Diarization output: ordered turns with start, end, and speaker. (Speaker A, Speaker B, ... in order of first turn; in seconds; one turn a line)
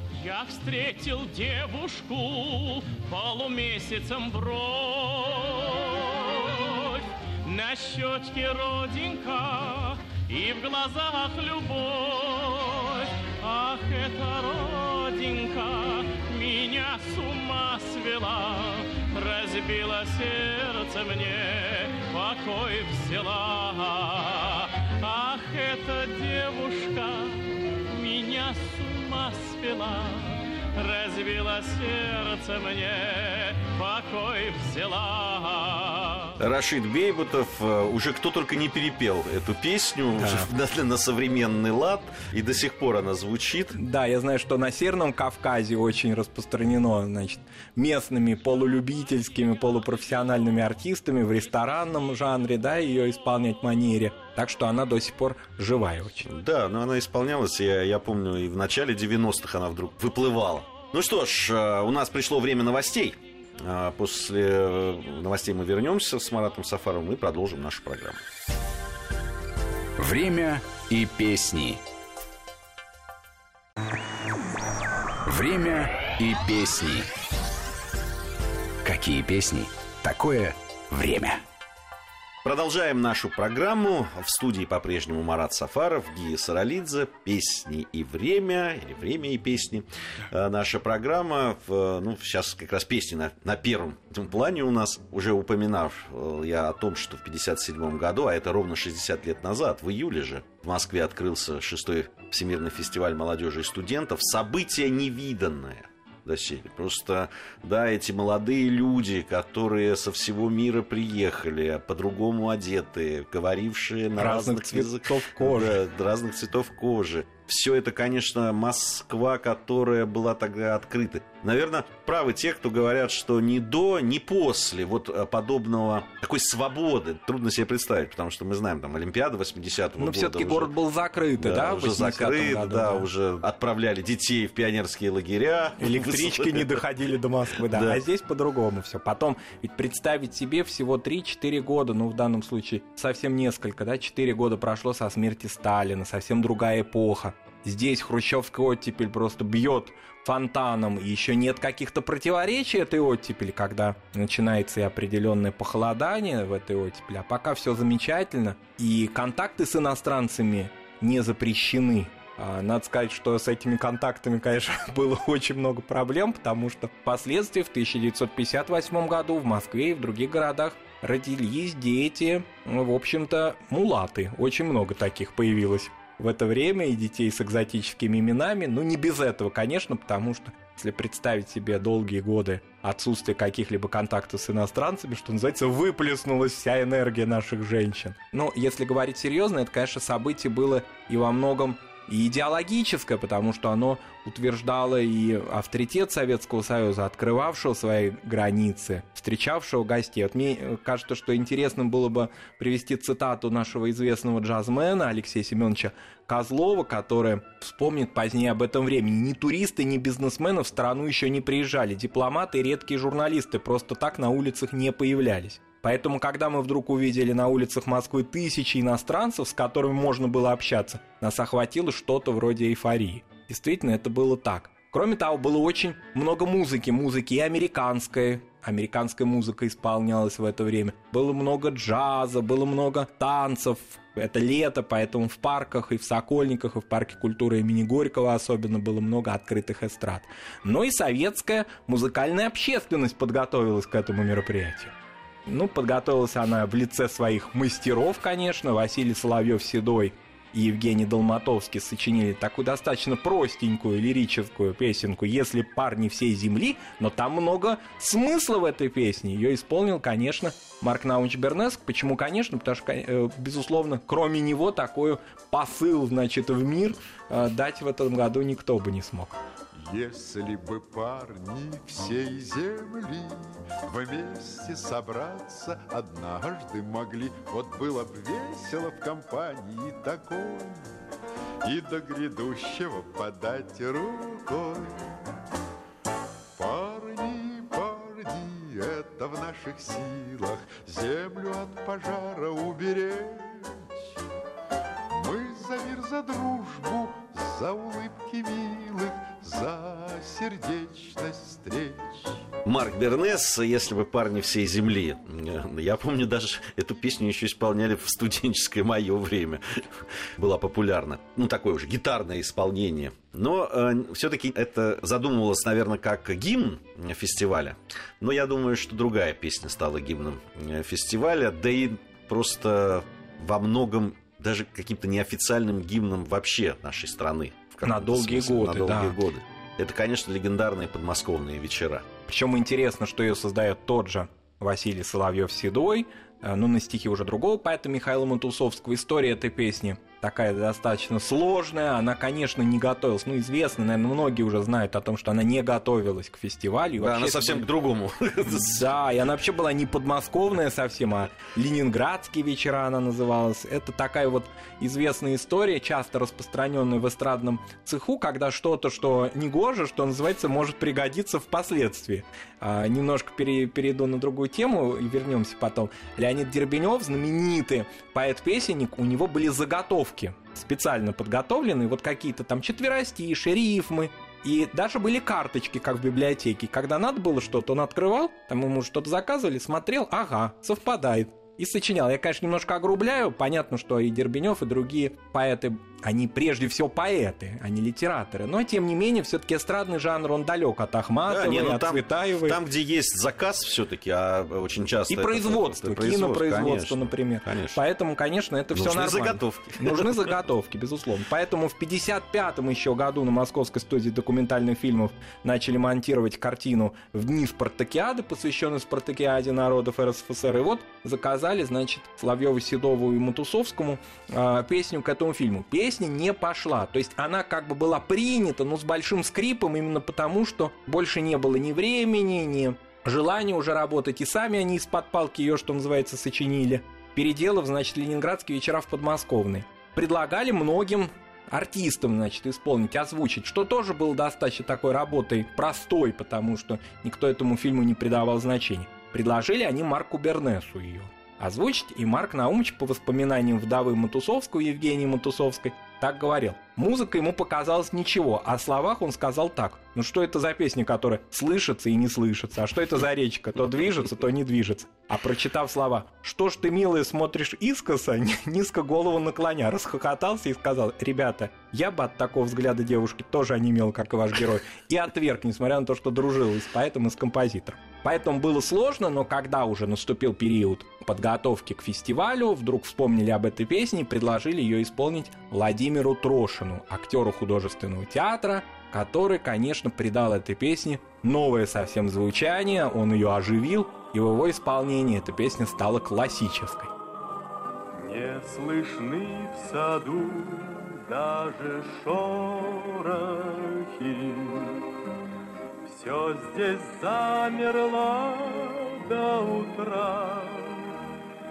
Speaker A: 0.2-36.4
Speaker B: 36.4-43.8
Speaker C: 40.2-40.5
Speaker C: 43.8-56.3
Speaker B: 56.2-68.2
Speaker D: 70.0-71.8
Speaker D: 75.3-77.1
Speaker D: 78.8-81.4
Speaker B: 82.4-130.7
Speaker C: 114.2-115.8
Speaker C: 130.0-133.1
Speaker B: 131.4-136.8
Speaker C: 135.8-244.9
Speaker B: 137.6-138.0
Speaker C: 245.5-269.4
Speaker E: 269.9-280.9
Speaker E: 281.6-285.1
Speaker E: 286.6-294.1
Speaker E: 295.1-302.4
Speaker B: 302.6-332.1
Speaker C: 327.9-329.2
Speaker C: 332.3-347.7
Speaker B: 347.0-348.9
Speaker C: 348.4-392.6
Speaker B: 391.3-397.8
Speaker C: 395.1-486.9
Speaker B: 398.7-400.4
Speaker F: 488.0-494.9
Speaker F: 495.8-500.9